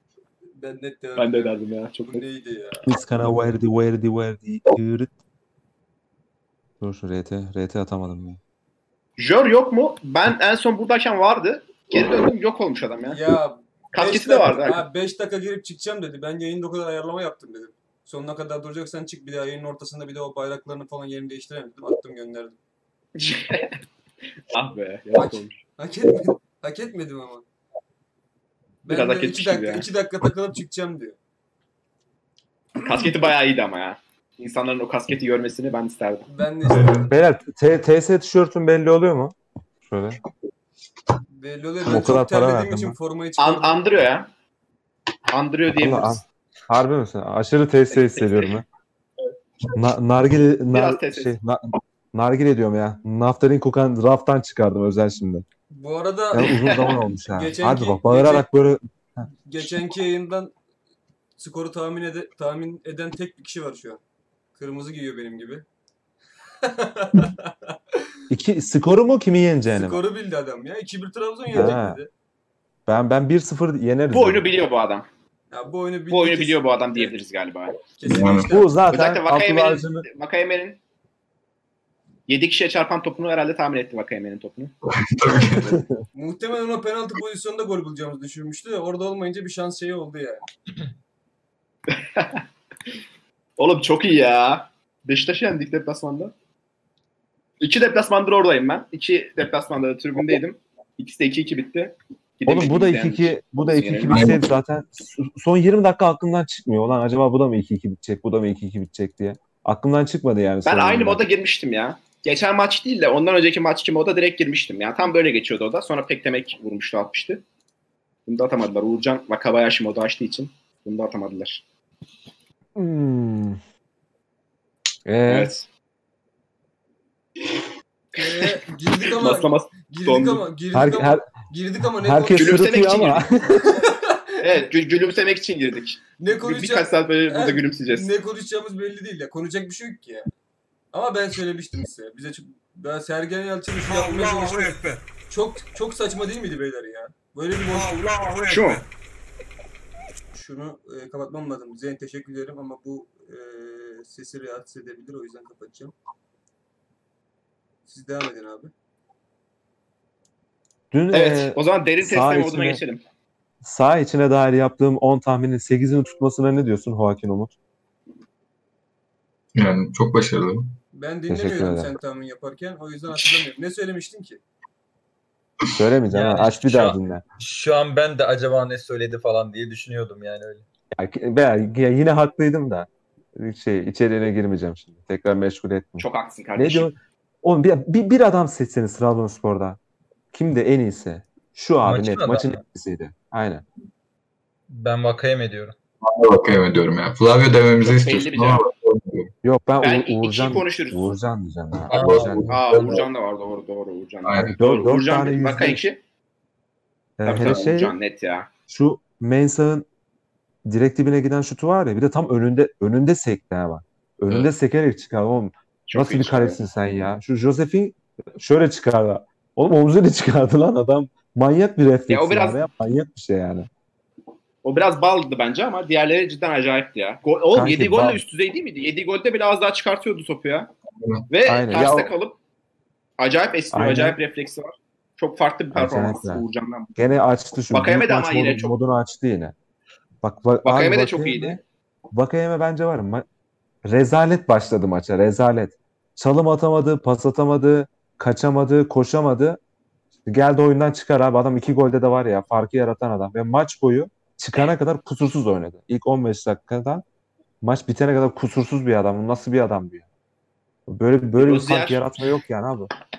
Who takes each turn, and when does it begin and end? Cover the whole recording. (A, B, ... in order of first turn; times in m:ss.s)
0:00.5-0:02.9 A
0:01.2-0:02.2 B
0:02.8-0:05.1 C
0:06.8-0:08.4 C
0:09.2-0:13.3 B
0:13.1-0:22.5 A
0:13.9-0:14.8 B
0:23.2-0:23.7 B
0:24.5-0:25.6 B
0:25.2-0:27.4 A
0:28.8-0:29.9 B
0:28.8-0:31.2 A
0:32.8-0:36.2 B
0:36.3-0:37.1 A
0:36.7-0:40.2 C
0:36.7-0:37.0 D
0:41.3-0:43.8 A
0:41.8-0:43.0 C
0:43.4-0:44.3 B
0:45.3-0:46.2 B
0:45.7-0:48.6 C
0:49.7-0:55.4 C
0:50.7-0:51.3 B
0:55.7-0:58.5 A
0:56.3-0:59.2 C
0:59.4-1:00.5 A
1:01.4-1:04.0 A
1:04.5-1:05.6 A
1:06.6-1:08.0 A
1:08.3-1:10.0 C
1:09.7-1:12.1 A
1:11.5-1:12.0 C
1:12.9-1:14.5 C
1:14.1-1:15.1 B
1:15.5-1:17.2 A
1:16.1-1:17.8 B
1:18.0-1:18.8 A
1:18.0-1:18.6 D
1:18.2-1:20.1 C
1:18.9-1:20.8 B
1:22.3-1:24.7 B
1:24.8-1:25.8 D
1:26.1-1:30.4 A
1:31.9-1:32.4 B
1:33.6-1:36.3 B
1:37.6-1:44.3 B
1:42.4-1:51.2 C
1:44.1-1:44.4 D
1:50.6-1:57.4 B
1:58.2-2:01.6 B
2:02.7-2:03.6 C
2:05.0-2:05.5 C
2:05.3-2:05.6 B
2:08.1-2:12.5 A
2:09.1-2:10.5 B
2:10.7-2:11.3 C
2:11.9-2:13.8 C
2:12.3-2:13.3 B
2:13.7-2:14.6 A
2:14.4-2:18.1 B
2:16.2-2:20.3 A
2:20.9-2:28.1 A
2:28.3-2:28.8 B
2:30.3-2:35.9 A
2:37.9-2:38.7 A
2:40.9-2:42.8 C
2:41.1-2:43.0 B
2:43.6-2:47.5 C
2:49.5-2:50.8 D
2:50.9-2:54.4 A
2:51.3-2:52.0 C
2:55.7-2:57.2 C
2:56.1-3:00.6 E
3:00.9-3:09.8 C
3:06.0-3:06.9 B
3:10.3-3:13.6 C
3:11.8-3:12.6 E
3:14.7-3:15.8 E
3:16.0-3:19.3 D
3:17.8-3:18.6 B
3:19.4-3:22.6 C
3:19.8-3:21.1 B
3:21.9-3:22.4 E
3:21.9-3:23.0 D
3:22.5-3:26.0 B
3:24.2-3:24.6 D
3:24.6-3:25.8 C
3:27.2-3:28.0 C
3:27.2-3:28.5 B
3:27.2-3:27.6 D
3:28.7-3:29.9 C
3:30.6-3:43.7 C
3:35.9-3:36.6 B
3:42.1-3:42.6 B
3:44.6-3:50.7 B
3:47.5-3:48.2 C
3:51.0-3:51.3 D
3:51.3-3:52.4 B
3:51.4-3:52.1 C
3:53.2-3:57.0 B
3:53.7-3:54.2 C
3:55.7-3:59.5 C
3:57.7-3:58.7 B
4:00.2-4:01.6 C
4:00.6-4:01.6 B
4:02.1-4:03.2 C
4:03.8-4:09.6 C
4:10.2-4:17.0 C
4:17.6-4:20.0 C
4:20.9-4:22.9 C
4:21.4-4:22.0 B